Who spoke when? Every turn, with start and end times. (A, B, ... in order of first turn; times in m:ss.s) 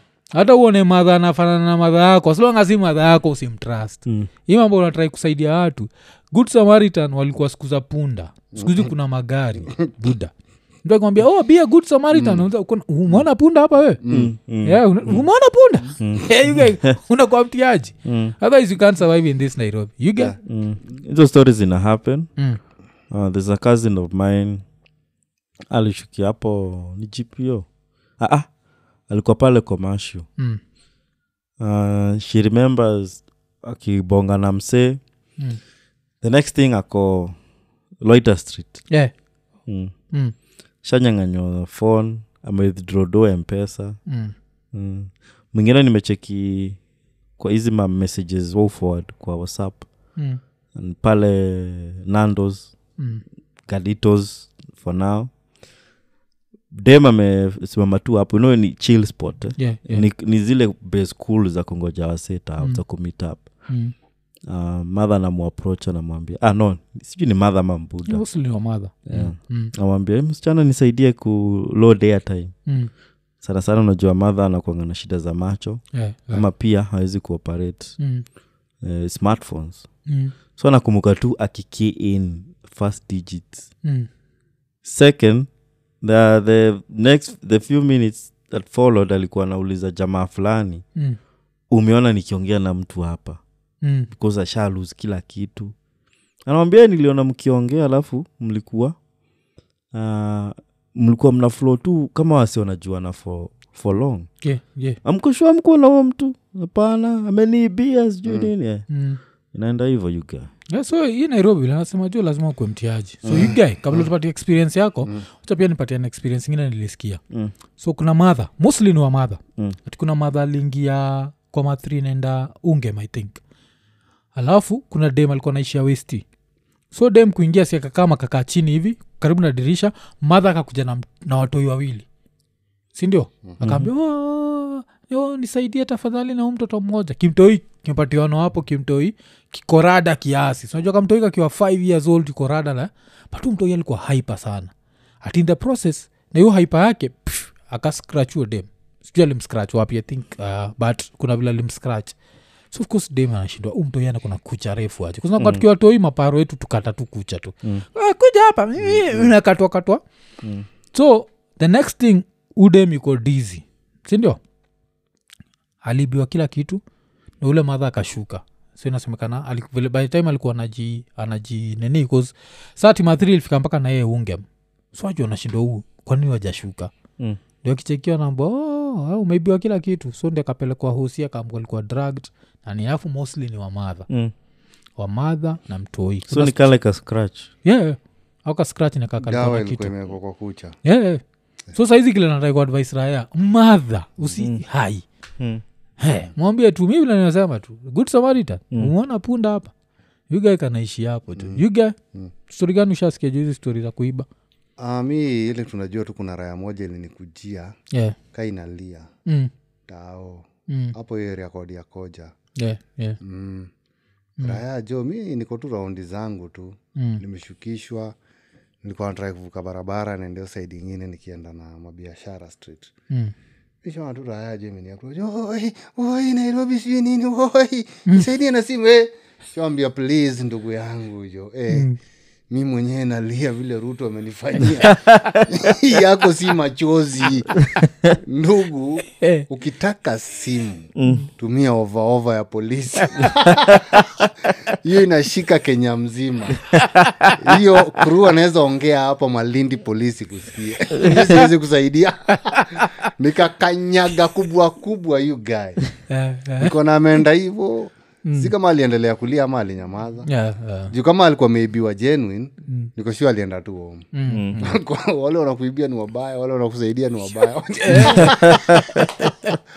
0:00.3-0:10.3 A
0:08.6-0:08.9 B
0:10.8-0:14.0 A
0:12.1-0:12.5 B
0:14.0-0:14.3 B
0:14.1-0:15.3 C
0:14.6-0:20.4 A
0:16.0-0:16.9 C
0:18.0-0:18.4 C
0:20.5-0:22.3 C
0:23.1-0:24.6 C
0:25.7-0:27.7 C
0:28.2-0:28.5 C
0:29.1-0:30.3 C
0:31.6-0:35.0 C
0:36.2-0:37.4 C
0:38.0-0:38.8 C
0:39.7-0:39.9 C
0:40.8-0:44.0 C
0:44.1-0:44.3 A
0:44.7-0:46.8 C
0:47.4-0:49.9 C
0:50.8-0:52.7 C
0:53.0-0:53.2 A
0:53.7-0:55.3 C
0:56.7-1:03.4 C
0:59.6-1:00.1 A
1:03.7-1:03.9 A
1:04.5-1:08.2 C
1:08.1-1:09.7 A
1:09.1-1:12.5 C
1:13.4-1:18.0 C
1:15.9-1:16.5 A
1:18.0-1:18.2 A
1:18.8-1:19.8 C
1:20.1-1:20.4 A
1:20.6-1:23.7 C
1:23.8-1:24.1 A
1:24.8-1:25.5 C
1:26.0-1:30.8 C
1:31.7-1:33.4 C
1:33.8-1:34.1 A
1:34.1-1:35.7 C
1:36.5-1:39.0 C
1:39.9-1:44.3 C
1:44.4-1:45.0 A
1:45.0-1:48.8 C
1:48.9-1:49.2 A
1:49.5-1:50.5 C
1:50.7-1:57.2 A
1:53.3-1:54.1 B
1:57.8-2:03.4 A
2:04.4-2:06.2 A
2:06.9-2:12.1 A
2:13.0-2:24.7 A
2:13.6-2:13.9 C
2:25.2-2:32.2 A
2:32.7-2:40.0 A
2:35.4-2:35.6 C
2:40.4-2:40.7 C
2:40.9-2:44.4 A
2:45.8-2:46.8 A
2:47.4-2:56.9 A
2:57.6-3:04.1 A
3:04.1-3:04.3 C
3:05.0-3:06.6 A
3:06.3-3:07.5 C
3:07.6-3:09.9 A
3:09.2-3:10.8 B
3:10.8-3:11.2 A
3:11.7-3:15.0 A
3:16.0-3:19.7 A
3:20.3-3:22.0 A
3:22.5-3:24.3 A
3:24.8-3:27.8 B
3:28.3-3:29.1 B
3:29.3-3:29.5 A
3:29.9-3:32.3 B
3:30.7-3:30.9 A
3:32.6-3:33.2 A
3:33.2-3:33.7 B
3:34.4-3:38.2 B
3:37.0-3:37.2 A
3:38.8-3:42.9 B
3:43.8-3:51.9 B
3:51.7-3:52.0 A
3:52.5-4:06.6 B
3:54.8-3:55.5 C
3:59.2-3:59.5 A
4:01.0-4:01.3 C
4:03.7-4:04.0 C
4:06.7-4:07.6 C
4:07.3-4:15.9 B
4:11.1-4:11.3 A
4:12.5-4:12.9 A
4:16.1-4:16.7 A
4:16.6-4:20.3 B
4:18.2-4:18.5 A
4:20.3-4:20.9 A
4:20.9-4:24.1 B
4:24.1-4:24.8 A
4:24.3-4:24.6 C
4:24.6-4:29.1 B
4:27.8-4:29.6 A
4:28.0-4:29.1 C